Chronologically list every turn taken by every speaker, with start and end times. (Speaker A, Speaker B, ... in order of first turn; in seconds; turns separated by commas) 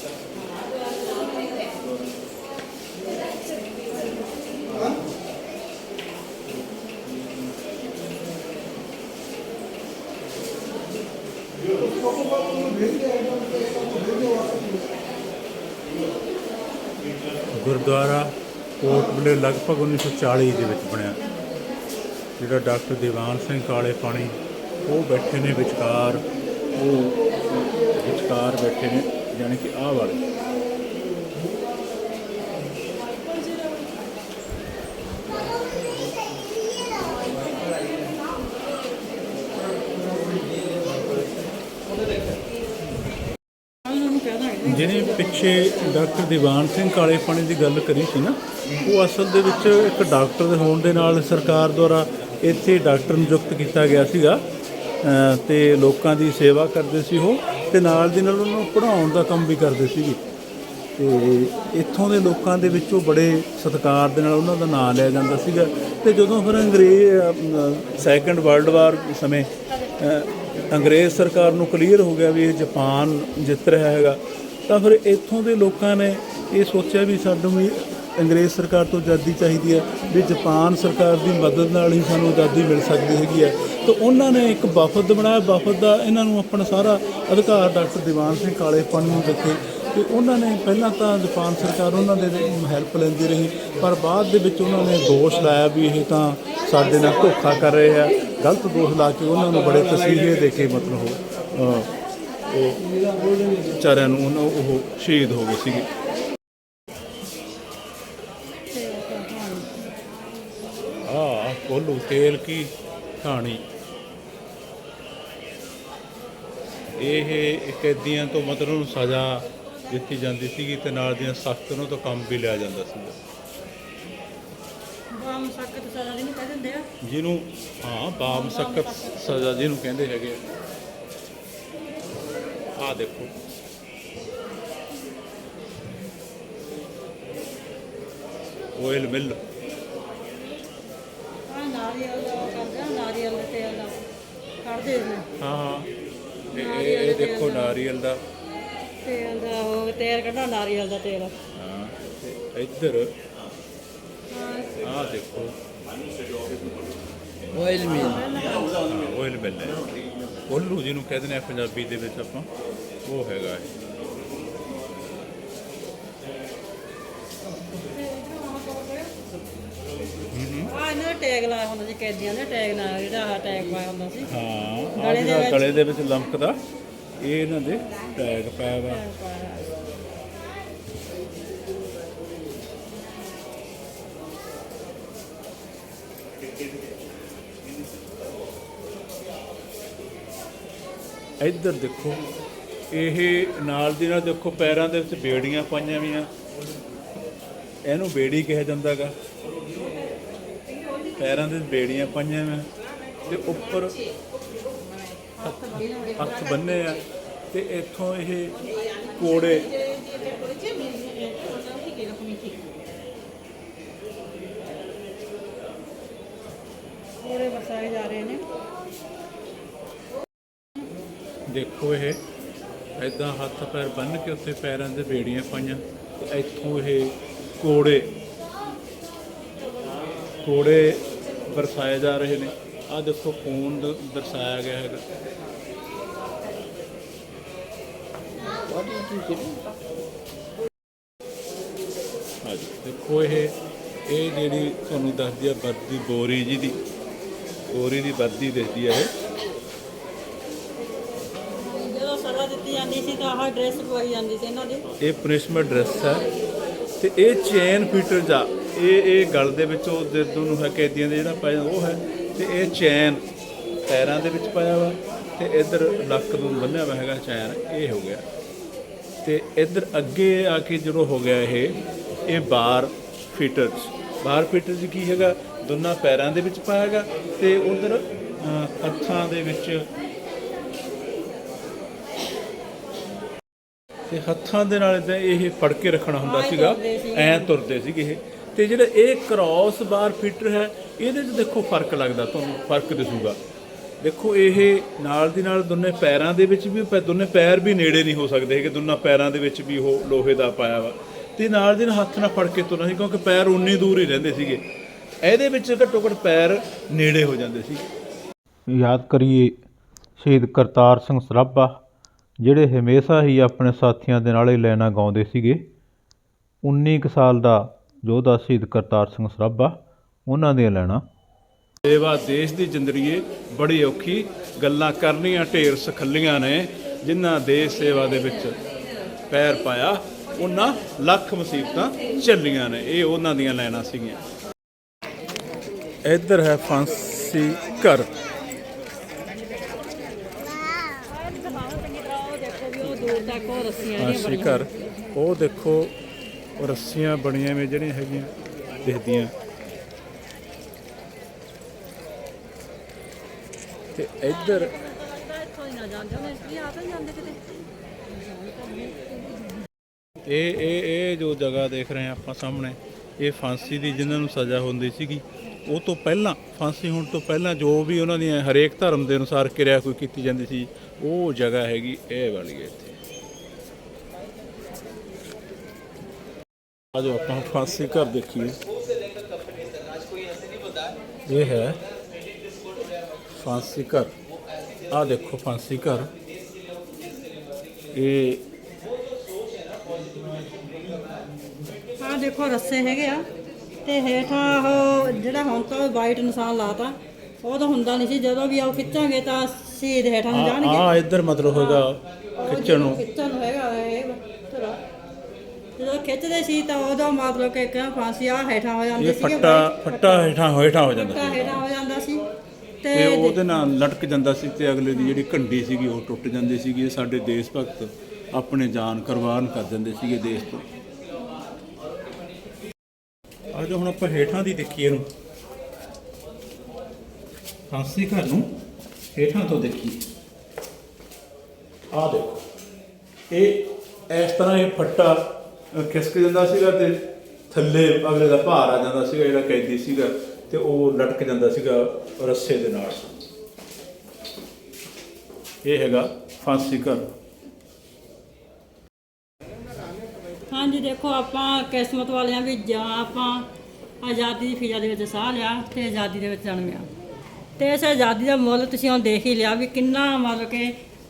Speaker A: 17.5-21.2, Speaker A: 22.4-24.3, Speaker A: 24.9-26.2, Speaker A: 26.7-30.2, Speaker B: 43.8-45.2, Speaker A: 44.6-54.4, Speaker A: 55.0-60.2, Speaker A: 61.0-101.9, Speaker A: 102.5-102.8, Speaker A: 103.8-105.9, Speaker B: 108.7-109.8, Speaker A: 111.0-113.6, Speaker A: 117.0-123.2, Speaker B: 125.1-126.9, Speaker A: 127.0-130.4, Speaker B: 128.2-129.6, Speaker A: 132.8-133.3, Speaker A: 138.8-139.4, Speaker B: 141.5-144.0, Speaker B: 144.6-145.3, Speaker A: 145.4-145.9, Speaker B: 146.5-147.8, Speaker A: 146.5-148.2, Speaker B: 149.0-151.3, Speaker A: 151.5-153.1, Speaker B: 154.4-154.7, Speaker A: 154.8-155.6, Speaker A: 157.6-158.0, Speaker B: 157.7-158.8, Speaker A: 158.7-159.8, Speaker A: 160.5-162.5, Speaker A: 163.1-163.7, Speaker B: 167.8-169.1, Speaker A: 170.3-170.7, Speaker B: 170.7-174.3, Speaker A: 174.2-176.6, Speaker B: 175.0-175.8, Speaker A: 177.2-179.0, Speaker B: 178.8-179.7, Speaker A: 191.4-192.2, Speaker A: 192.9-196.3, Speaker A: 197.9-199.1, Speaker A: 201.2-202.7, Speaker A: 203.2-203.9, Speaker A: 205.4-208.6, Speaker B: 205.8-206.2, Speaker A: 209.1-209.7, Speaker B: 211.0-212.4, Speaker B: 217.2-218.4, Speaker A: 221.5-222.2, Speaker A: 223.0-228.1, Speaker A: 230.4-235.0, Speaker A: 238.6-239.6, Speaker A: 242.4-243.5, Speaker A: 244.1-246.8, Speaker A: 247.7-249.1, Speaker B: 251.5-254.8, Speaker A: 255.0-256.2, Speaker A: 257.0-263.2, Speaker A: 263.9-268.2, Speaker A: 269.2-279.9, Speaker A: 284.1-293.4, Speaker B: 286.2-287.5, Speaker A: 294.0-304.6, Speaker A: 305.2-307.8, Speaker C: 308.7-309.6, Speaker C: 310.2-311.8, Speaker C: 312.4-315.6, Speaker C: 316.6-319.7, Speaker C: 320.3-321.0, Speaker A: 321.8-328.6, Speaker A: 329.3-334.2, Speaker A: 336.1-338.1, Speaker B: 341.1-344.7, Speaker A: 344.0-345.9, Speaker A: 346.6-348.3, Speaker A: 348.8-349.3, Speaker A: 353.9-354.7, Speaker B: 354.3-357.4, Speaker B: 358.1-359.1, Speaker A: 360.2-373.0, Speaker A: 376.9-378.6, Speaker A: 381.3-381.8, Speaker A: 383.4-384.1, Speaker A: 384.9-386.1, Speaker A: 387.9-388.4, Speaker B: 392.0-393.2, Speaker B: 393.8-400.9, Speaker A: 400.3-403.0, Speaker B: 401.5-401.8, Speaker B: 402.4-404.8, Speaker B: 405.8-410.4, Speaker A: 409.0-411.6, Speaker B: 410.9-412.2, Speaker B: 412.8-413.5, Speaker A: 412.9-420.6, Speaker A: 423.5-425.0, Speaker A: 427.7-428.4, Speaker A: 429.1-430.0, Speaker A: 431.9-432.4, Speaker A: 433.3-435.2, Speaker A: 435.7-436.9, Speaker A: 437.5-443.2, Speaker A: 445.6-447.0, Speaker B: 450.5-453.5, Speaker B: 454.0-456.9, Speaker B: 457.6-460.7